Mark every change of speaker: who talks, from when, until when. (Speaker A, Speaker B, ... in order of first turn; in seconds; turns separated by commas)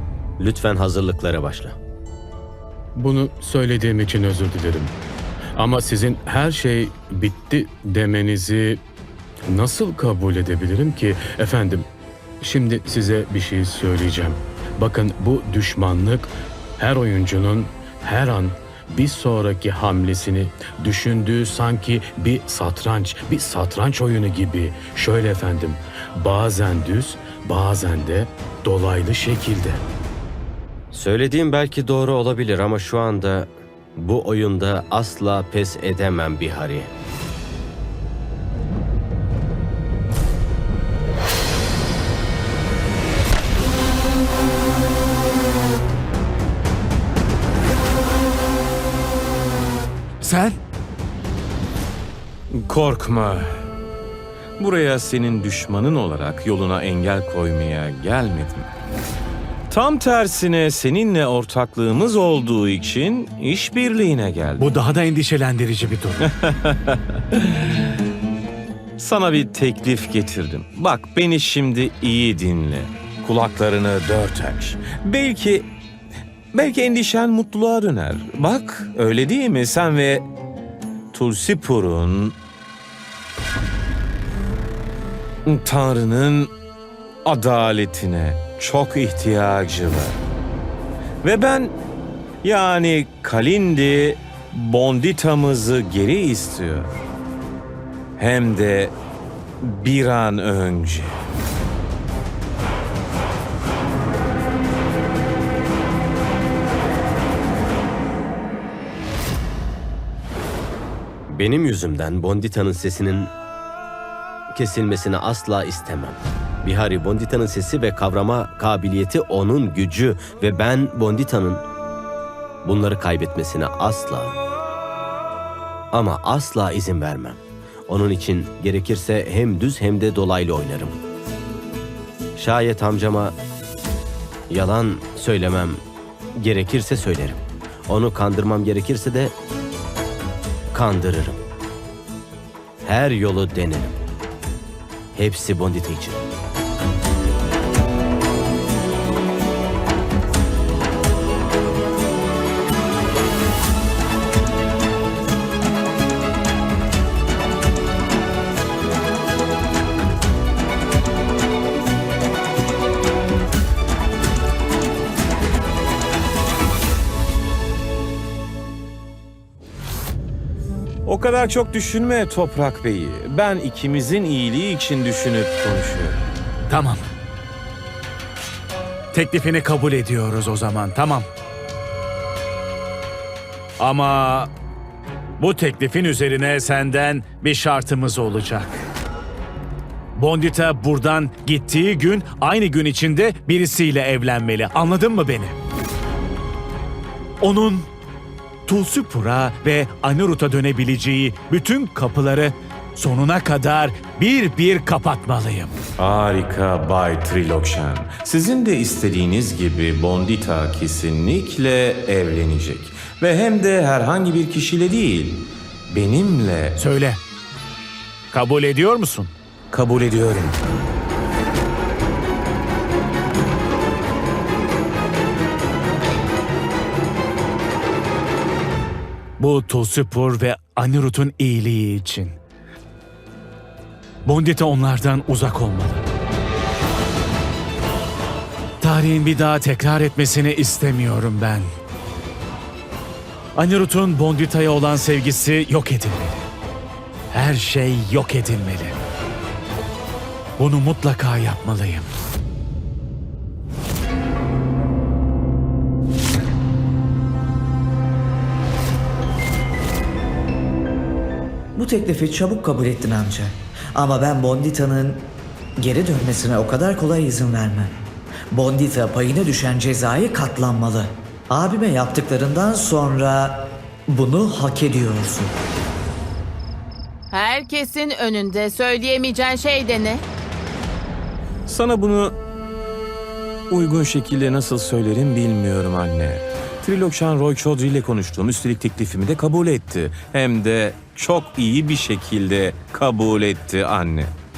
Speaker A: 0.4-1.8, Speaker B: 2.9-5.0, Speaker B: 5.5-8.8, Speaker B: 9.5-11.9, Speaker B: 12.4-29.8, Speaker A: 30.9-36.9, Speaker C: 50.2-50.6, Speaker D: 52.5-53.6, Speaker D: 54.6-58.7, Speaker D: 59.7-64.7, Speaker C: 64.6-66.3, Speaker D: 66.2-67.7, Speaker D: 69.0-75.7, Speaker D: 76.5-80.2, Speaker D: 81.1-82.3, Speaker D: 85.5-86.5, Speaker D: 87.2-90.2, Speaker D: 91.2-91.7, Speaker D: 92.4-96.9, Speaker D: 98.2-98.9, Speaker D: 99.6-101.2, Speaker A: 111.3-113.3, Speaker A: 114.5-121.6, Speaker A: 122.6-124.4, Speaker A: 125.9-131.0, Speaker A: 132.3-133.3, Speaker A: 134.5-135.8, Speaker A: 136.3-139.3, Speaker A: 140.7-141.4, Speaker A: 142.8-143.9, Speaker A: 145.1-146.2, Speaker D: 171.1-176.2, Speaker C: 176.7-177.0, Speaker C: 179.1-181.2, Speaker C: 183.8-184.5, Speaker C: 185.4-188.7, Speaker C: 190.2-195.6, Speaker C: 197.4-197.9, Speaker C: 198.7-205.8, Speaker D: 206.0-216.8, Speaker C: 216.8-217.2, Speaker C: 218.3-219.3, Speaker D: 219.7-220.6, Speaker C: 229.4-232.4, Speaker C: 234.2-236.0, Speaker C: 238.8-241.7, Speaker C: 243.6-246.4, Speaker C: 247.3-249.0, Speaker C: 250.6-252.1, Speaker E: 261.8-265.2, Speaker E: 265.8-267.9, Speaker E: 268.5-275.5, Speaker F: 277.3-280.2, Speaker D: 281.7-282.3, Speaker D: 283.7-294.3